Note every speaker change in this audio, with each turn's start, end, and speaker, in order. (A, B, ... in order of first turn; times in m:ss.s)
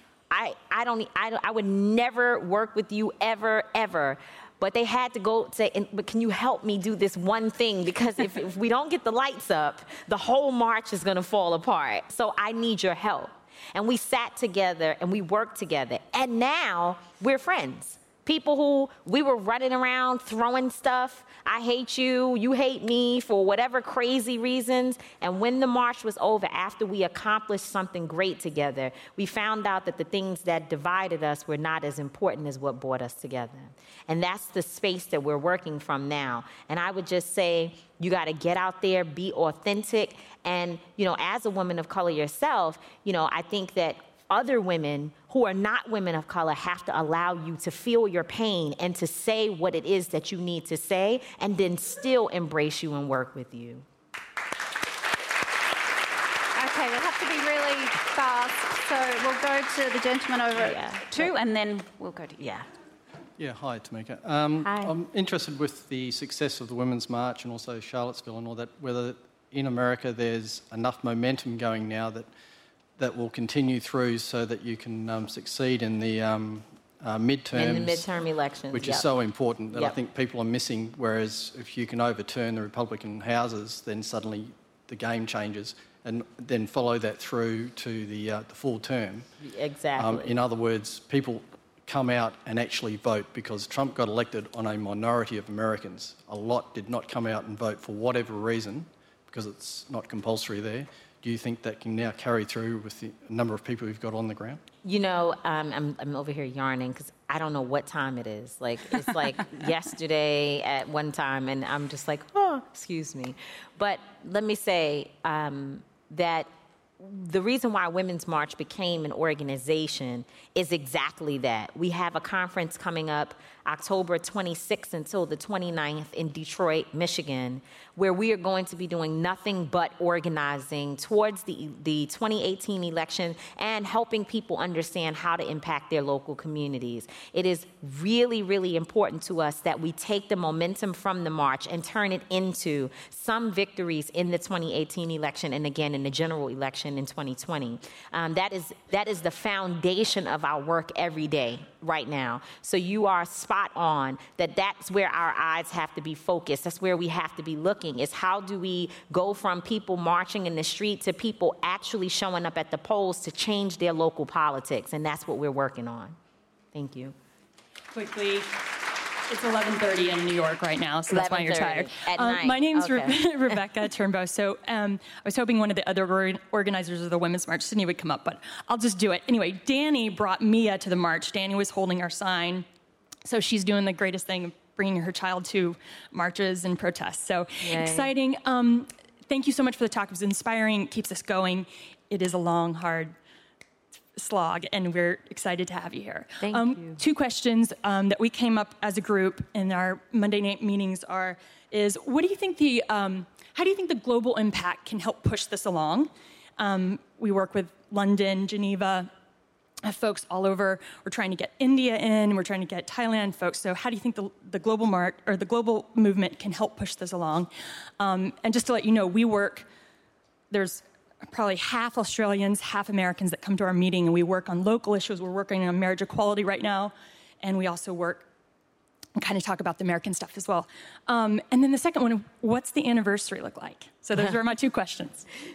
0:00.3-0:53.8 A
0:56.5-1:02.4 B
1:00.5-1:01.3 A
1:02.4-1:02.7 A
1:03.4-1:12.3 C
1:04.6-1:04.9 A
1:13.0-1:18.1 C
1:17.5-1:19.1 A
1:18.7-1:29.2 C
1:19.7-1:20.0 A
1:29.4-1:30.3 A
1:30.0-1:44.6 C
1:44.8-2:46.2 A
2:46.7-2:47.2 A
2:47.9-2:48.5 D
2:49.3-3:02.6 D
2:51.1-2:53.2 A
3:03.2-3:13.2 D
3:07.6-3:08.1 A
3:14.2-3:29.1 D
3:16.4-3:17.0 A
3:29.8-3:39.7 D
3:40.5-3:48.3 D
3:49.2-3:55.3 D